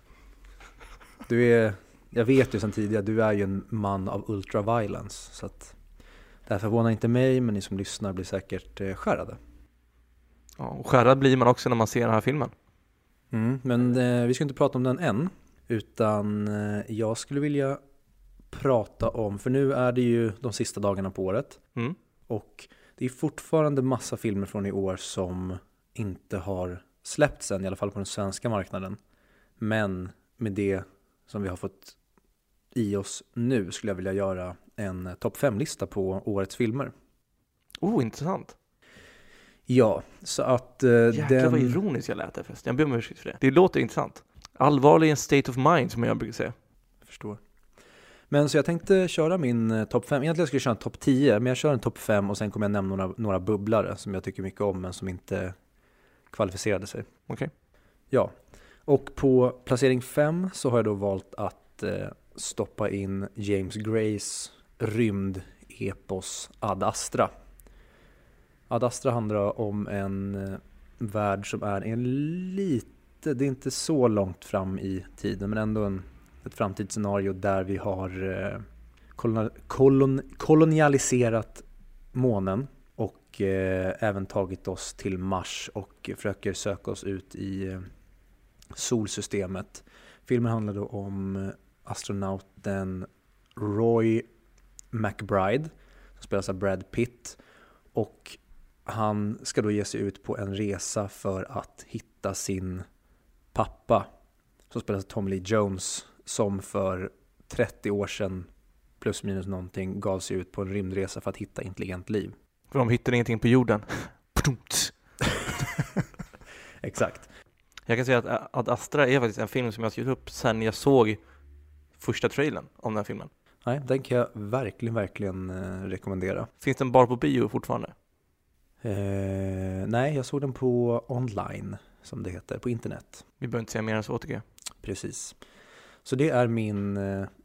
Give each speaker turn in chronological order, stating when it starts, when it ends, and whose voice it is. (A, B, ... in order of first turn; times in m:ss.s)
0:01.3-0:05.8 A
0:06.5-0:09.4 A
0:10.6-0:12.5 B
0:13.3-0:17.8 A
0:18.5-0:21.6 A
0:22.3-0:29.0 A
0:29.6-0:32.0 A
0:32.7-0:36.9 A
0:37.8-0:38.5 B
0:39.7-0:41.8 A
0:41.1-0:46.5 B
0:47.0-0:47.4 A
0:48.3-0:55.5 A
0:56.3-0:57.1 A
0:58.8-1:07.3 A
1:08.7-1:18.6 A
1:19.2-1:27.8 A
1:28.7-1:34.2 A
1:34.9-1:37.4 A
1:37.9-1:42.8 A
1:43.5-1:44.1 A
1:44.7-1:48.5 A
1:49.0-1:52.4 A
1:52.7-1:54.9 B
1:56.8-1:57.3 A
1:57.8-2:01.2 B
2:02.0-2:03.3 B
2:03.6-2:06.5 A
2:06.6-2:07.9 B
2:08.8-2:13.2 A
2:13.4-2:14.4 B
2:14.8-2:15.4 A
2:16.0-2:17.3 A